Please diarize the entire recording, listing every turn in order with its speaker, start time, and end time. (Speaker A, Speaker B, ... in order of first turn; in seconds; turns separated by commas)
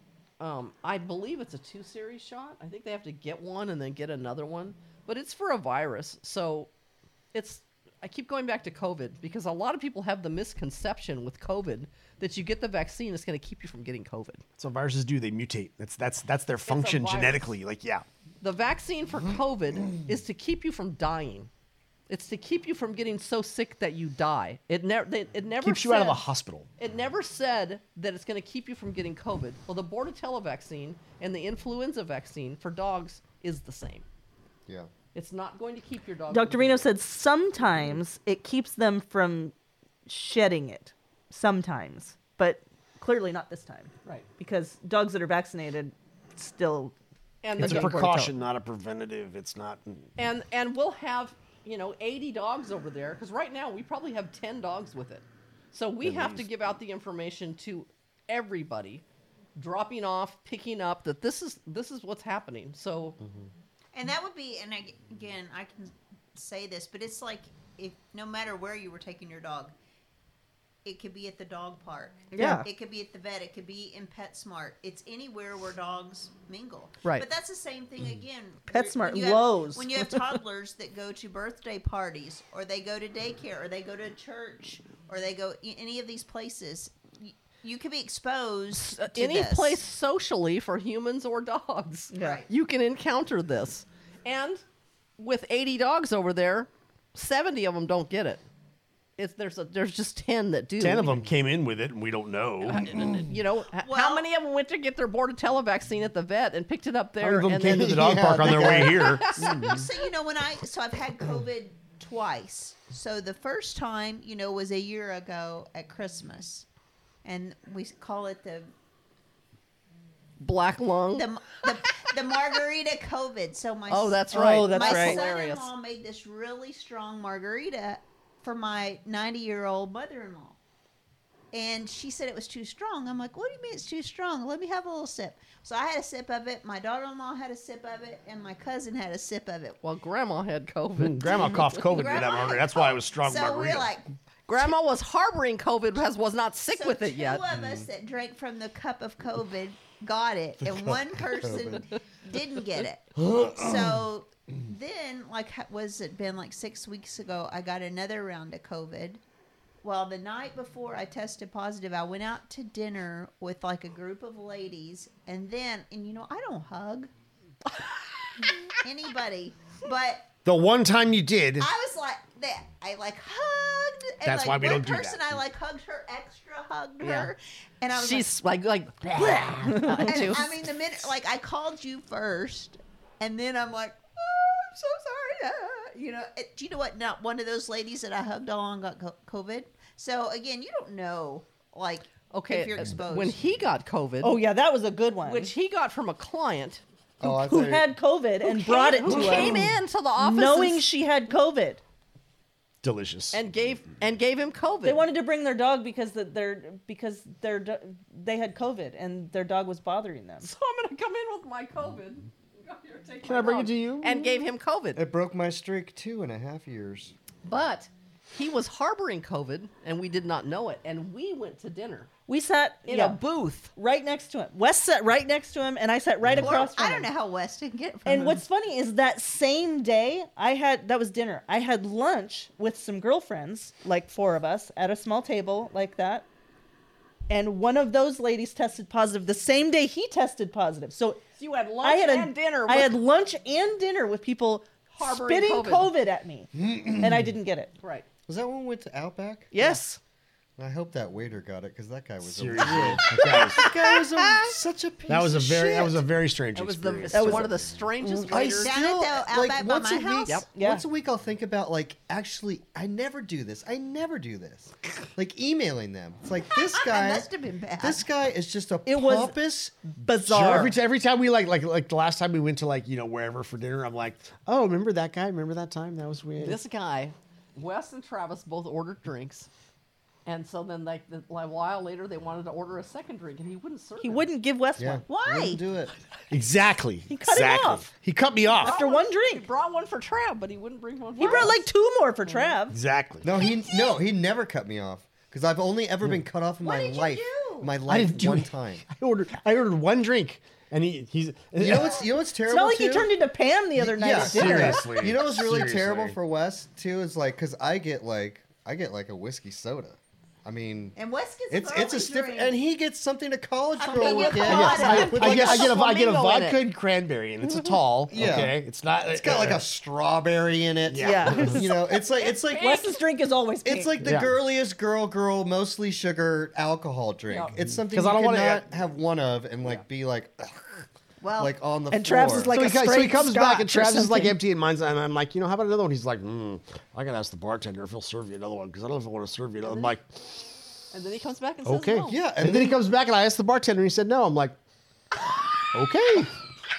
Speaker A: 0.4-6.7, Speaker A: 7.3-14.4, Speaker B: 14.6-18.1, Speaker A: 16.6-17.6, Speaker A: 18.4-21.5, Speaker A: 22.1-26.2, Speaker B: 25.6-26.7, Speaker A: 26.8-34.0, Speaker A: 35.1-36.9, Speaker C: 36.3-39.5, Speaker C: 40.1-46.9, Speaker A: 47.4-48.3, Speaker B: 47.6-50.1, Speaker C: 47.6-48.1, Speaker A: 50.2-59.0, Speaker B: 56.0-56.5, Speaker A: 59.6-63.2, Speaker D: 63.9-69.7, Speaker D: 70.8-89.8, Speaker C: 72.3-72.7, Speaker C: 78.7-80.4, Speaker A: 88.7-94.6, Speaker D: 92.1-92.5, Speaker C: 92.1-92.4, Speaker A: 95.2-98.4, Speaker A: 99.2-101.2, Speaker B: 100.8-103.0, Speaker A: 102.6-109.8, Speaker D: 103.8-104.3, Speaker B: 107.2-109.5, Speaker E: 107.7-109.9, Speaker D: 109.3-116.7, Speaker D: 117.2-118.7, Speaker A: 120.4-121.3, Speaker D: 121.1-130.6, Speaker A: 123.9-125.7, Speaker C: 124.3-125.3, Speaker D: 131.5-139.8, Speaker A: 139.8-142.2, Speaker B: 141.0-143.9, Speaker D: 141.8-144.1, Speaker A: 144.5-147.4, Speaker D: 146.7-159.2, Speaker E: 147.5-147.9, Speaker E: 151.4-151.8, Speaker E: 153.2-153.9, Speaker D: 159.8-167.1, Speaker D: 168.8-170.3, Speaker B: 170.4-171.7, Speaker D: 171.6-178.3, Speaker B: 174.2-175.3, Speaker A: 177.0-177.3, Speaker A: 177.9-180.5, Speaker D: 179.2-193.4, Speaker C: 179.6-180.4, Speaker A: 192.3-194.4, Speaker C: 194.2-195.5, Speaker A: 195.2-196.8, Speaker E: 197.2-197.9, Speaker C: 197.2-201.8, Speaker A: 198.4-200.8, Speaker B: 199.2-199.6, Speaker B: 202.8-203.4, Speaker A: 203.3-205.1, Speaker C: 204.8-210.5, Speaker A: 210.4-215.0, Speaker B: 213.2-214.4, Speaker E: 214.9-217.1, Speaker A: 217.4-222.1, Speaker C: 222.3-223.2, Speaker A: 222.9-223.7, Speaker C: 223.8-227.1, Speaker D: 226.4-228.4, Speaker C: 228.1-236.3, Speaker C: 237.3-241.2, Speaker A: 241.4-243.0, Speaker C: 241.8-247.7, Speaker A: 244.9-245.9, Speaker E: 246.6-247.3, Speaker A: 247.8-248.1, Speaker E: 248.3-249.6, Speaker C: 249.5-250.0, Speaker E: 250.6-256.1, Speaker B: 252.2-253.7, Speaker C: 253.2-253.7, Speaker B: 255.1-257.6, Speaker A: 256.5-258.8, Speaker C: 257.1-258.4, Speaker E: 258.3-267.3, Speaker D: 258.6-260.4, Speaker C: 260.6-260.8, Speaker D: 266.5-268.1, Speaker E: 267.8-269.8, Speaker C: 268.9-270.8, Speaker B: 270.3-276.6, Speaker A: 276.4-279.5, Speaker A: 280.3-284.2, Speaker C: 284.0-285.0, Speaker E: 284.8-285.9, Speaker D: 285.1-285.6, Speaker B: 286.3-288.8, Speaker C: 287.1-287.9, Speaker C: 288.6-289.4, Speaker A: 288.6-291.7, Speaker C: 291.2-292.8, Speaker A: 292.2-292.6, Speaker B: 292.7-293.3, Speaker E: 293.2-298.9, Speaker D: 293.3-294.0, Speaker D: 296.6-297.8, Speaker B: 297.9-302.0, Speaker E: 301.6-303.1, Speaker C: 302.5-304.9, Speaker E: 303.8-311.0, Speaker B: 304.1-306.2, Speaker D: 311.0-312.6, Speaker E: 311.5-315.7, Speaker D: 313.8-315.7, Speaker A: 313.9-316.6, Speaker B: 314.4-319.6, Speaker E: 318.1-318.6, Speaker E: 319.1-322.8, Speaker B: 320.9-321.7, Speaker C: 321.0-321.8, Speaker A: 322.5-323.0, Speaker C: 322.5-324.0, Speaker E: 323.6-330.9, Speaker B: 324.0-324.4, Speaker A: 327.3-327.6, Speaker B: 327.7-328.6, Speaker D: 331.2-331.6, Speaker E: 331.4-332.6, Speaker C: 331.9-334.4, Speaker B: 332.5-340.2, Speaker A: 339.7-339.9, Speaker A: 340.9-342.2, Speaker B: 341.6-344.6, Speaker E: 342.1-342.8, Speaker B: 345.7-346.4